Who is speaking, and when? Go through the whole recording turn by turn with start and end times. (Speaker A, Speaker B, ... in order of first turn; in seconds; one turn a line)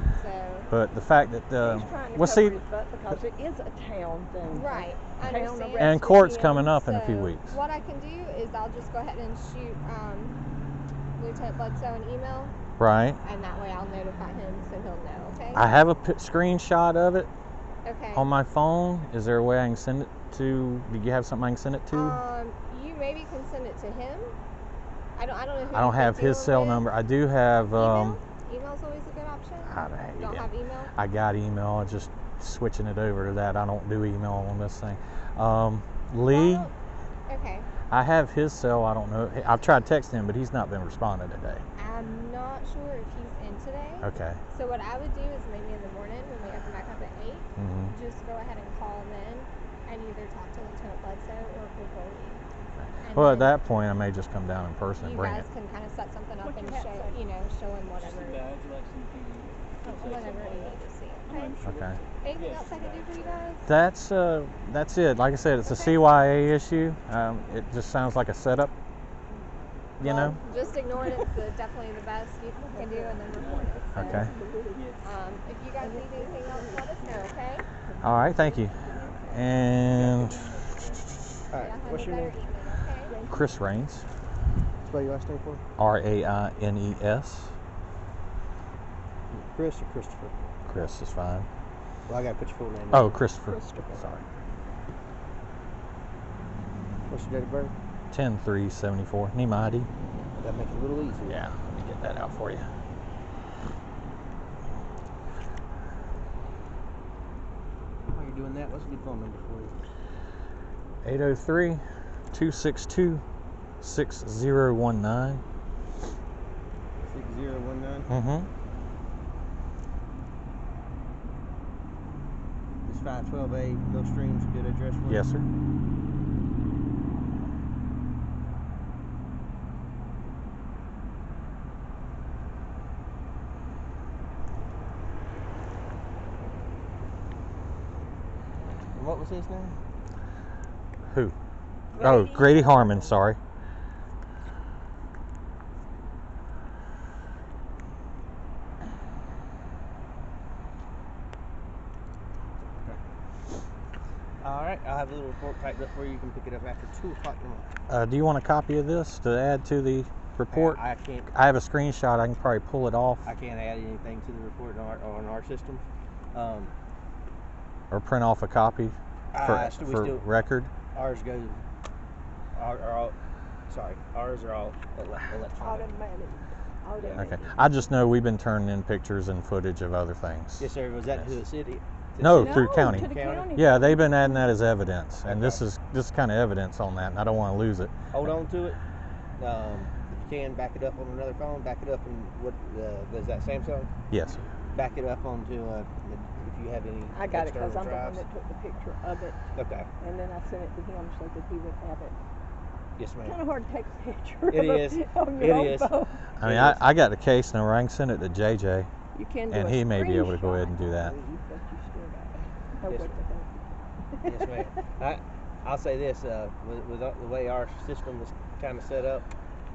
Speaker A: 0.1-0.7
Speaker B: 0.7-2.6
Speaker C: 1.6-6.5
Speaker A: 4.5-10.4
Speaker B: 5.8-7.5
Speaker A: 11.2-12.5
Speaker B: 12.8-13.2
Speaker A: 13.2-15.6
Speaker B: 15.5-17.3
Speaker A: 17.8-18.3
Speaker B: 18.1-22.2
Speaker A: 21.9-24.4
Speaker A: 25.2-26.9
Speaker B: 25.7-28.2
Speaker A: 27.7-30.9
Speaker B: 29.7-36.7
Speaker A: 36.3-36.7
Speaker A: 37.3-37.7
Speaker B: 37.9-41.6
Speaker A: 41.8-52.4
Speaker B: 44.0-44.4
Speaker B: 47.6-47.9
Speaker B: 52.8-55.5
Speaker A: 53.0-53.5
Speaker A: 55.0-58.5
Speaker C: 56.4-57.2
Speaker D: 58.0-60.8
Speaker A: 59.8-61.5
Speaker C: 61.2-62.2
Speaker D: 61.3-61.7
Speaker B: 61.6-62.0
Speaker A: 62.2-63.6
Speaker D: 62.3-63.6
Speaker B: 63.7-68.7
Speaker A: 65.7-66.0
Speaker B: 70.0-70.4
Speaker A: 70.0-74.2
Speaker C: 70.0-71.2
Speaker C: 72.6-74.9
Speaker D: 73.3-75.1
Speaker B: 74.0-74.3
Speaker A: 75.0-77.7
Speaker C: 75.8-76.9
Speaker D: 76.8-77.3
Speaker C: 77.9-79.3
Speaker B: 78.0-80.4
Speaker D: 78.7-81.2
Speaker E: 81.5-82.3
Speaker A: 81.6-83.2
Speaker C: 83.1-83.5
Speaker B: 83.3-84.0
Speaker E: 84.8-85.6
Speaker B: 85.8-87.6
Speaker E: 89.3-90.9
Speaker B: 90.7-91.5
Speaker E: 92.1-93.3
Speaker B: 92.9-94.2
Speaker C: 93.5-94.1
Speaker E: 97.1-97.7
Speaker B: 98.1-99.9
Speaker E: 100.4-101.4
Speaker B: 101.3-102.7
Speaker E: 108.1-109.8
Speaker B: 111.0-113.2
Speaker B: 113.8-115.4
Speaker E: 117.0-118.1
Speaker B: 118.1-118.5
Speaker E: 122.9-125.2
Speaker B: 125.1-125.5
Speaker E: 138.9-139.8
Speaker B: 141.1-141.3
Speaker C: 141.9-143.1
Speaker B: 142.0-143.4
Speaker E: 154.4-157.7
Speaker B: 157.9-160.8
Speaker E: 160.5-161.3
Speaker B: 161.3-163.2
Speaker E: 163.2-166.7
Speaker B: 167.9-170.7
Speaker E: 169.3-170.3
Speaker E: 170.9-171.6
Speaker E: 172.6-173.2
Speaker E: 173.7-175.9
Speaker C: 175.6-177.8
Speaker E: 177.0-177.3
Speaker B: 177.2-180.7
Speaker E: 180.6-183.6
Speaker B: 182.2-187.9
Speaker C: 182.3-184.5
Speaker E: 185.2-185.6
Speaker E: 188.1-188.8
Speaker E: 189.4-193.9
Speaker B: 194.1-194.4
Speaker E: 194.7-198.2
Speaker C: 197.1-199.4
Speaker E: 199.5-199.9
Speaker C: 200.0-202.2
Speaker E: 203.0-203.4
Speaker C: 203.2-206.2
Speaker E: 204.5-206.9
Speaker B: 206.4-208.9
Speaker C: 209.1-213.6
Speaker B: 209.5-211.2
Speaker E: 212.9-213.2
Speaker C: 214.1-214.7
Speaker E: 214.2-219.3